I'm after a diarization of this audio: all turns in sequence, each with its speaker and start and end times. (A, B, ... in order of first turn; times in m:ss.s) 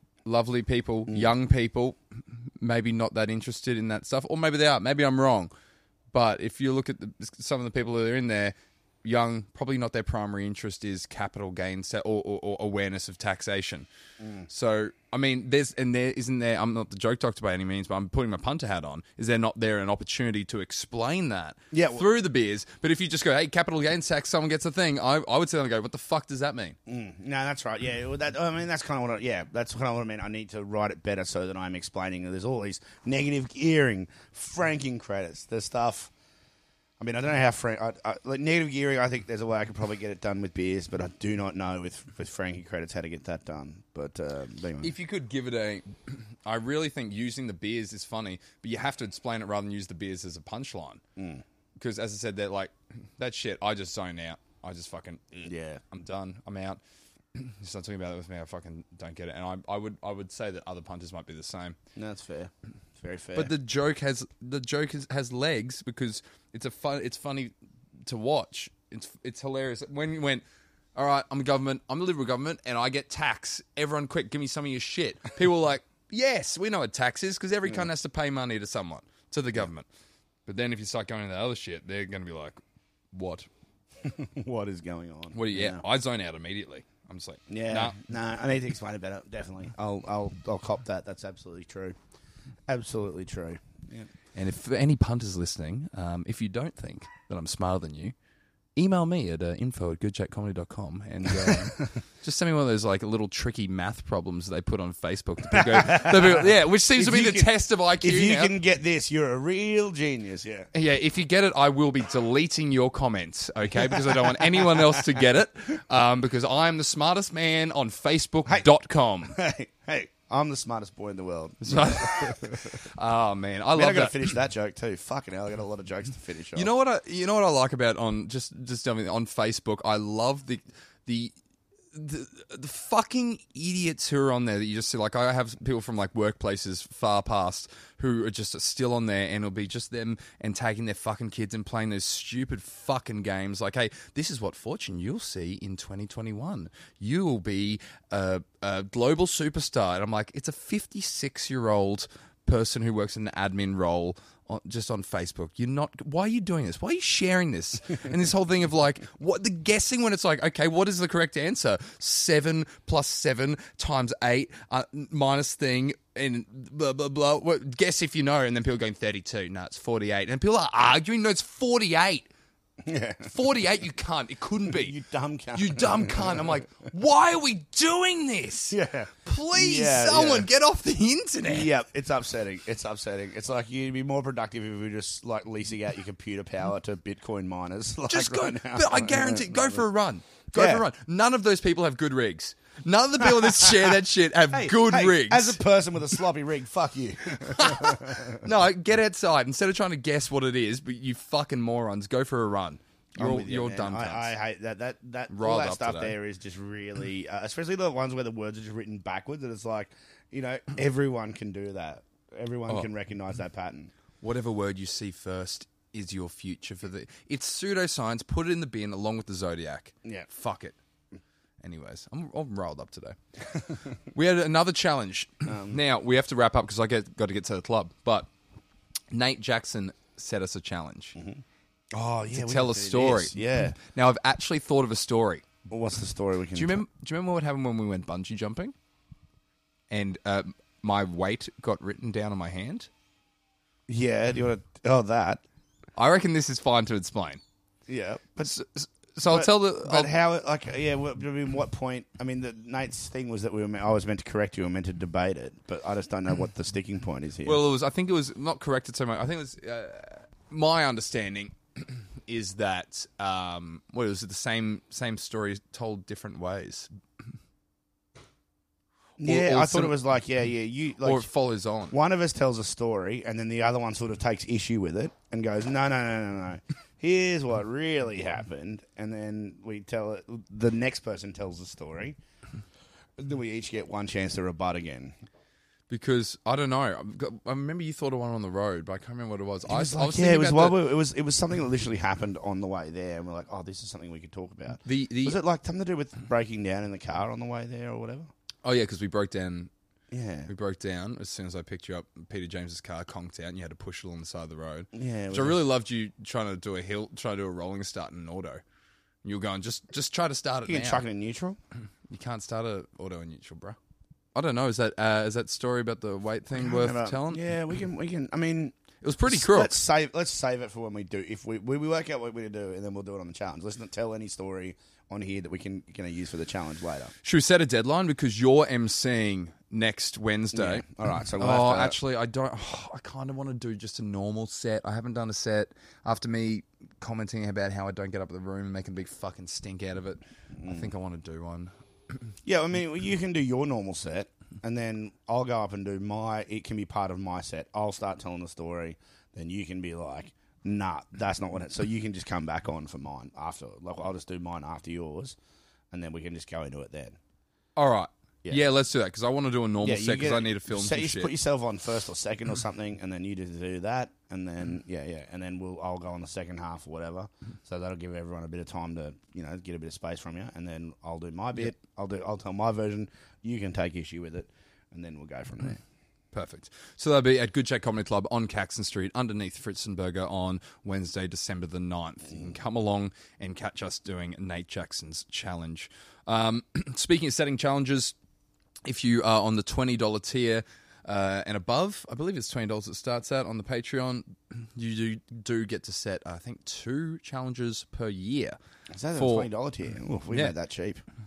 0:00.2-0:02.0 A
0:02.6-0:05.5 A
0:06.1-0:13.9 A
0:14.2-0:14.5 B
0:14.5-0:26.8 A
0:21.7-0:22.1 B
0:26.9-0:36.1 B
0:37.0-0:44.9 B
0:44.8-0:51.0 A
0:51.2-0:51.4 B
0:51.8-0:56.8 A
0:55.4-0:55.8 B
0:57.3-1:01.8 A
1:02.0-1:03.5 B
1:03.4-1:07.5 A
1:08.1-1:10.4 A
1:10.9-1:19.9 A
1:20.4-1:22.6 A
1:23.1-1:23.5 A
1:24.0-1:25.8 B
1:25.3-1:28.0 A
1:27.5-1:32.0 B
1:32.7-1:34.1 B
1:34.4-1:38.1 A
1:38.8-1:48.5 A
1:41.4-1:41.8 B
1:45.5-1:50.7 B
1:50.7-1:59.4 A
1:53.8-1:55.0 B
1:59.3-2:02.8 B
2:01.6-2:04.3 A
2:03.7-2:06.7 B
2:06.6-2:11.4 A
2:11.9-2:52.3 A
2:52.8-2:53.3 B
2:53.2-2:54.9 A
2:54.7-2:56.6 B
2:55.6-3:01.7 A
2:58.7-3:00.5 B
3:01.4-3:09.8 B
3:08.1-3:15.6 A
3:10.5-3:10.8 B
3:14.5-3:18.4 B
3:17.4-3:24.3 A
3:23.2-3:33.9 B
3:25.3-3:26.1 A
3:34.2-3:40.8 A
3:41.6-3:43.2 A
3:44.1-3:48.3 A
3:45.5-3:45.8 B
3:49.1-3:51.2 A
3:51.2-3:53.8 B
3:52.3-3:55.4 A
3:55.7-3:56.8 B
3:56.5-3:58.7 A
3:59.9-4:02.9 A
4:03.9-4:05.4 B
4:06.0-4:07.4 A
4:07.9-4:08.6 B
4:08.4-4:10.1 A
4:09.3-4:17.6 B
4:17.4-4:26.9 A
4:29.2-4:31.3 B
4:29.2-4:30.0 A
4:31.0-4:31.9 A
4:31.9-4:42.2 B
4:43.2-4:45.2 B
4:45.9-4:50.8 A
4:49.7-4:58.3 B
4:54.9-4:55.4 A
4:58.6-4:59.7 A
5:00.1-5:00.5 B
5:00.5-5:08.6 A
5:04.9-5:05.6 B
5:09.2-5:11.0 A
5:10.6-5:11.6 B
5:12.1-5:13.8 A
5:14.4-5:17.4 A
5:16.6-5:27.1 B
5:19.0-5:19.8 A
5:27.2-5:30.9 A
5:30.5-5:32.0 B
5:31.4-5:41.7 A
5:40.6-5:40.9 B
5:42.4-5:55.4 B
5:55.9-5:57.2 B
5:57.8-6:01.3 A
5:59.8-6:15.8 B
6:16.3-6:28.2 A
6:28.8-6:38.6 A
6:38.9-6:41.0 B
6:39.1-6:39.5 A
6:40.3-6:40.6 A